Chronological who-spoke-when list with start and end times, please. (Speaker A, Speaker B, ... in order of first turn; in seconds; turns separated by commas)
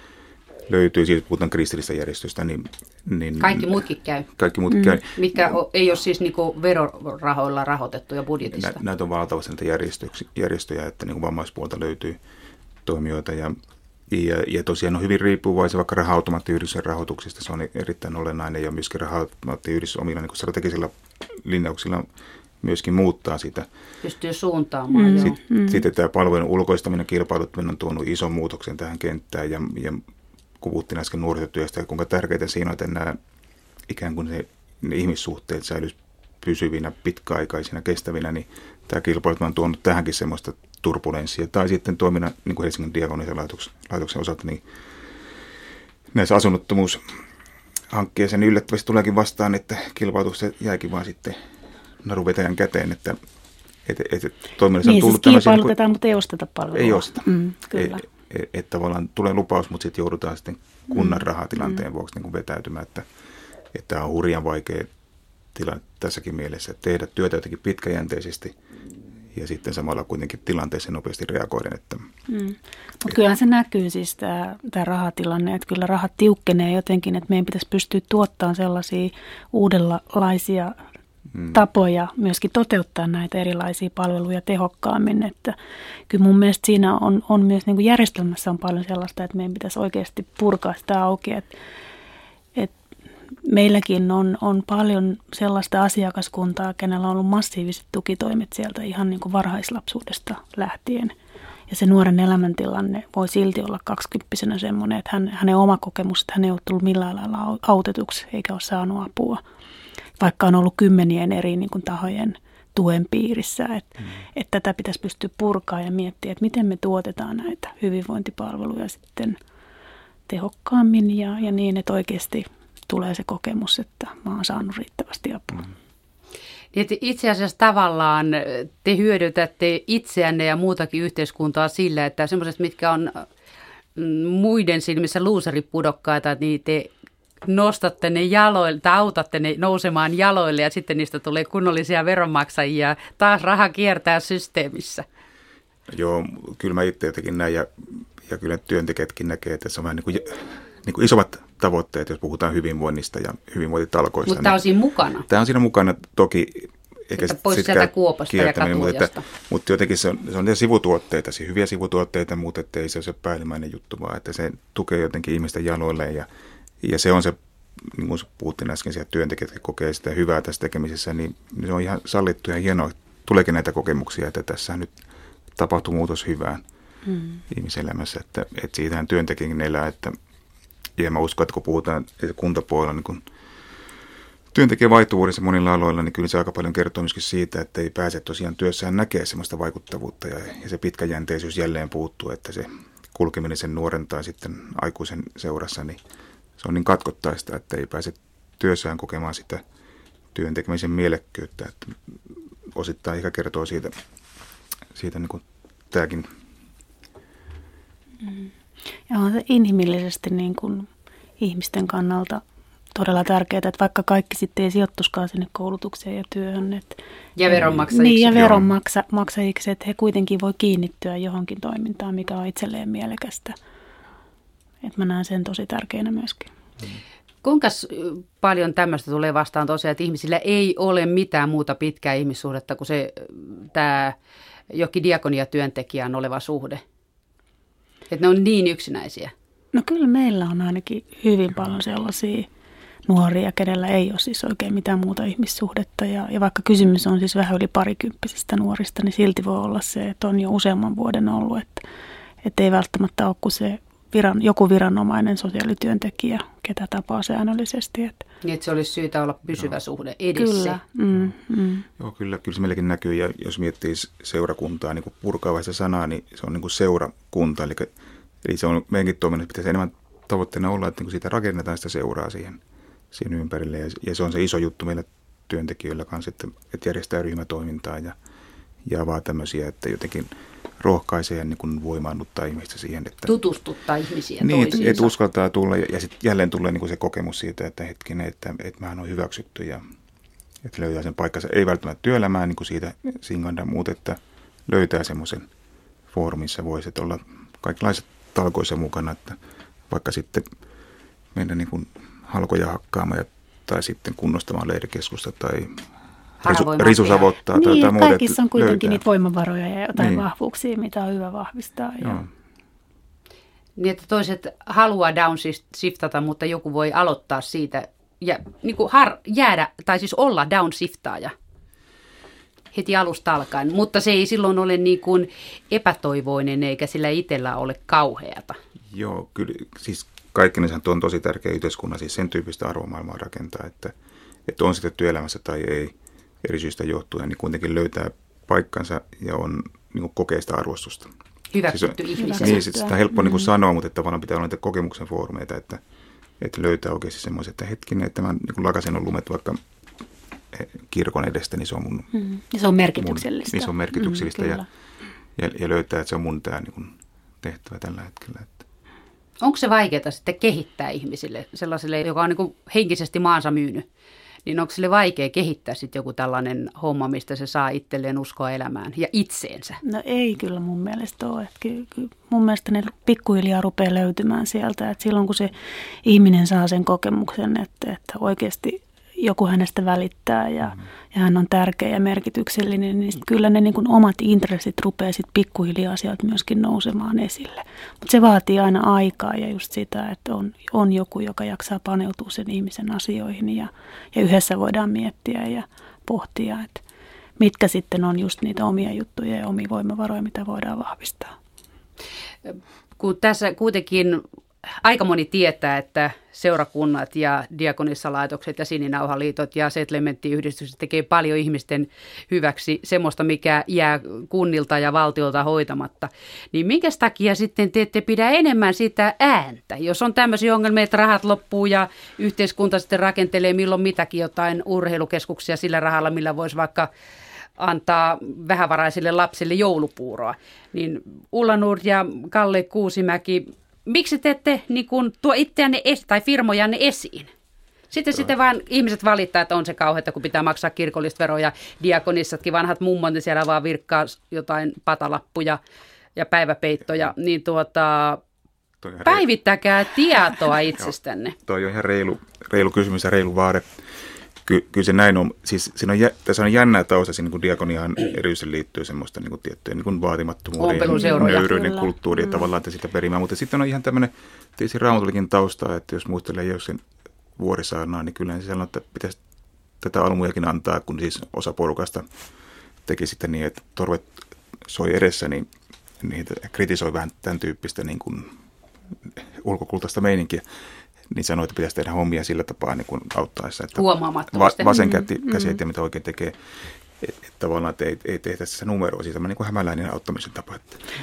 Speaker A: 0.7-5.1, Speaker B: 3.4-4.3, Speaker C: 4.7-5.0, Speaker B: 5.1-8.8, Speaker A: 8.5-12.2, Speaker A: 12.8-13.6, Speaker A: 14.1-22.1, Speaker A: 22.6-23.7, Speaker B: 24.0-25.4, Speaker C: 24.9-25.8, Speaker A: 25.6-30.0, Speaker A: 30.6-33.2, Speaker A: 33.9-44.6, Speaker A: 46.1-47.0, Speaker A: 47.9-51.4, Speaker A: 52.0-53.2, Speaker A: 53.8-55.7, Speaker C: 54.8-58.0, Speaker A: 56.7-63.0, Speaker C: 60.9-61.2, Speaker A: 63.7-64.9, Speaker A: 65.5-68.5, Speaker A: 69.3-72.1, Speaker C: 72.3-80.7, Speaker C: 81.4-85.5, Speaker C: 86.1-91.5, Speaker C: 93.4-101.1, Speaker C: 101.7-109.4, Speaker C: 110.2-119.4, Speaker C: 120.3-125.6, Speaker B: 126.7-133.2, Speaker B: 133.9-136.9, Speaker B: 137.4-145.1, Speaker A: 145.9-154.6, Speaker B: 154.2-155.3, Speaker A: 155.2-166.3, Speaker B: 157.2-159.2, Speaker A: 166.8-174.9, Speaker A: 175.5-176.6, Speaker C: 177.1-177.4, Speaker A: 177.5-180.2, Speaker A: 181.0-183.2, Speaker A: 184.5-196.0, Speaker A: 196.6-199.6, Speaker A: 200.3-203.9, Speaker A: 204.9-206.3, Speaker C: 208.2-208.5, Speaker C: 209.1-210.9, Speaker C: 211.4-212.4, Speaker C: 212.9-223.6, Speaker B: 217.4-218.4, Speaker A: 217.6-218.7, Speaker C: 224.8-226.5, Speaker B: 227.4-234.2, Speaker B: 234.7-236.8, Speaker B: 238.1-239.3, Speaker C: 239.7-242.5, Speaker C: 243.1-251.8, Speaker C: 252.4-258.2, Speaker B: 258.4-260.8, Speaker C: 260.4-261.9, Speaker A: 262.0-267.9, Speaker A: 268.4-278.1, Speaker A: 278.9-283.3, Speaker B: 283.2-285.1, Speaker A: 284.4-289.8, Speaker A: 290.6-295.5, Speaker A: 296.1-299.4, Speaker A: 299.9-300.5, Speaker A: 301.3-305.8, Speaker B: 306.4-307.3, Speaker A: 306.4-309.0, Speaker C: 307.5-312.3, Speaker A: 310.0-310.2, Speaker A: 312.0-312.3, Speaker B: 313.8-321.3, Speaker B: 322.7-328.6, Speaker A: 328.9-333.9, Speaker A: 334.4-341.1, Speaker B: 341.5-342.6, Speaker A: 341.7-345.8, Speaker C: 342.2-343.5, Speaker A: 346.4-349.6, Speaker A: 350.5-352.1, Speaker C: 352.1-354.6, Speaker A: 353.0-354.6, Speaker A: 355.4-358.6, Speaker B: 359.4-363.9, Speaker B: 364.4-369.8, Speaker C: 369.8-396.8, Speaker C: 397.4-401.3, Speaker B: 402.4-404.2, Speaker B: 404.8-426.9, Speaker B: 427.6-437.3, Speaker B: 437.9-445.6, Speaker B: 446.1-448.2, Speaker A: 448.8-449.2, Speaker B: 449.0-451.4, Speaker A: 451.4-453.6, Speaker A: 454.4-466.8, Speaker B: 460.6-461.5, Speaker C: 460.9-462.5, Speaker A: 467.4-469.2, Speaker A: 469.8-472.1, Speaker A: 472.9-475.5, Speaker A: 476.0-478.3, Speaker A: 479.0-480.4, Speaker A: 481.1-486.4, Speaker B: 483.8-484.8, Speaker C: 484.8-485.6, Speaker A: 487.0-490.8